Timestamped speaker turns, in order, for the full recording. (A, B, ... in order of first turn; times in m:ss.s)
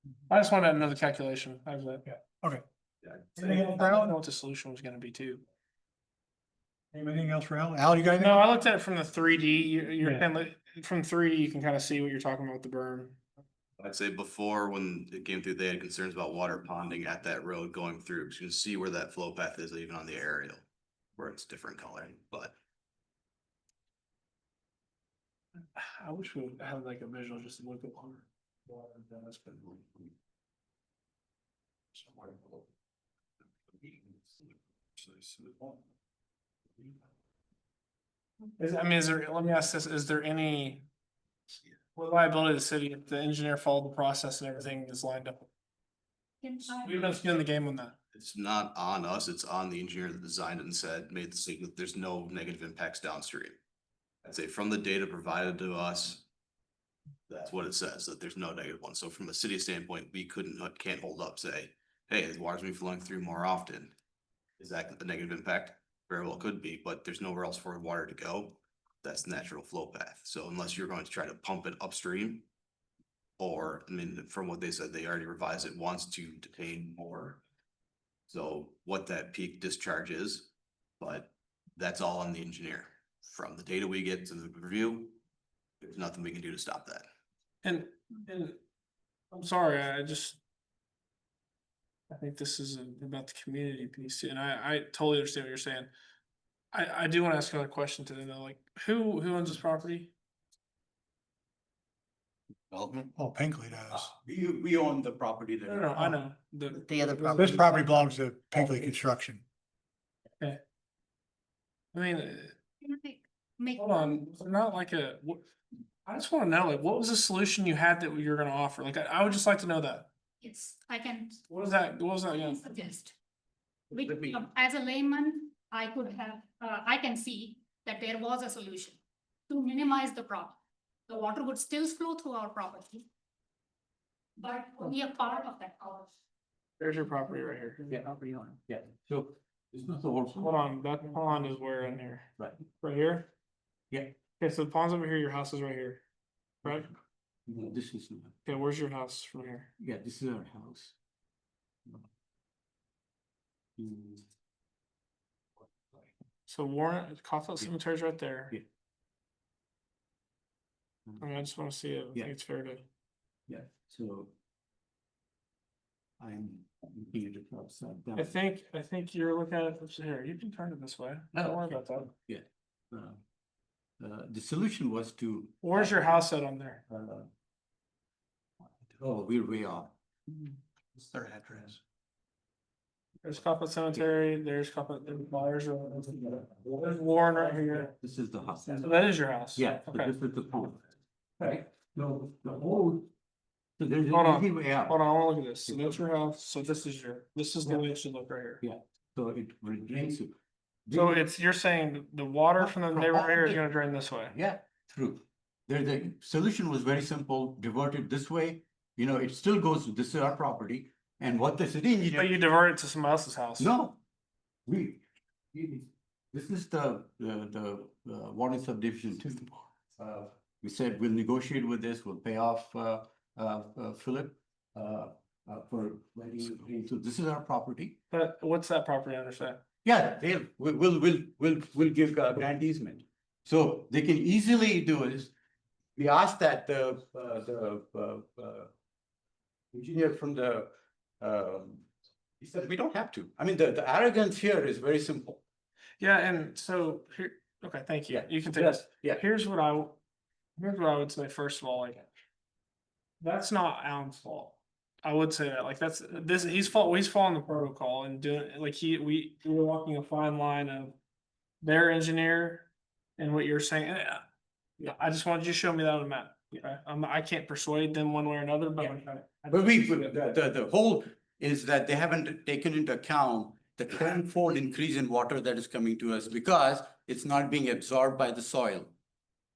0:00.3-0:02.1 A
0:03.1-0:05.4 A
0:03.4-0:04.0 B
0:07.1-0:08.1 C
0:07.9-0:08.4 B
0:08.2-0:13.2 A
0:13.8-0:20.6 D
0:21.2-0:22.5 D
0:25.7-0:30.0 A
0:32.0-0:32.6 A
0:35.0-0:35.7 A
0:38.6-0:40.8 A
0:41.9-0:45.5 A
0:46.4-0:47.1 C
0:46.7-0:47.9 A
0:48.1-0:53.6 D
0:54.2-0:56.2 D
0:57.3-1:03.9 D
1:04.6-1:12.4 D
1:13.4-1:17.4 D
1:18.3-1:25.2 D
1:25.8-1:27.1 D
1:27.6-1:28.6 A
1:29.3-1:30.4 A
1:32.1-1:35.9 A
1:36.7-1:40.1 A
1:43.2-1:44.1 B
1:43.9-1:45.9 E
1:45.6-1:47.8 A
1:46.8-1:49.4 B
1:47.4-1:48.6 C
1:51.9-1:52.6 A
1:52.8-1:54.2 C
1:53.8-1:55.4 A
1:56.0-2:00.1 A
2:00.4-2:01.4 C
2:01.5-2:02.6 A
2:02.4-2:03.1 C
2:03.9-2:04.4 E
2:04.4-2:08.9 C
2:09.5-2:10.5 C
2:11.1-2:13.0 C
2:14.4-2:16.1 C
2:16.8-2:17.8 A
2:18.0-2:18.6 B
2:18.7-2:20.7 E
2:20.4-2:22.3 A
2:22.8-2:23.3 A
2:23.9-2:24.2 E
2:24.4-2:26.0 A
2:26.6-2:26.9 A
2:27.5-2:28.4 E
2:28.4-2:29.7 A
2:29.8-2:31.0 E
2:33.8-2:34.2 E
2:36.4-2:38.6 A
2:41.2-2:42.8 A
2:43.5-2:44.3 E
2:46.2-2:48.4 E
2:48.2-2:52.1 A
2:51.3-2:53.2 E
2:54.0-2:56.0 E
2:55.6-2:56.8 A
2:56.9-2:57.3 E
2:59.0-2:59.9 E
3:01.1-3:01.8 E
3:03.2-3:07.9 A
3:07.8-3:08.9 E
3:08.8-3:10.1 A
3:09.5-3:10.8 E
3:11.4-3:13.1 E
3:13.8-3:15.0 E
3:14.1-3:18.6 A
3:15.7-3:15.9 E
3:18.6-3:20.3 E
3:20.8-3:21.2 E
3:20.9-3:24.3 A
3:22.6-3:23.6 E
3:24.3-3:32.4 E
3:32.1-3:33.7 A
3:33.6-3:34.0 E
3:34.6-3:48.0 E
3:48.1-3:49.6 A
3:49.8-3:55.3 E
3:56.0-3:58.7 E
3:59.7-4:00.7 E
4:01.2-4:01.9 E
4:02.4-4:05.4 E
4:06.0-4:10.0 A
4:08.1-4:09.2 E
4:10.6-4:12.0 A
4:13.2-4:20.9 A
4:21.6-4:24.2 A
4:24.8-4:30.1 A
4:29.5-4:38.9 E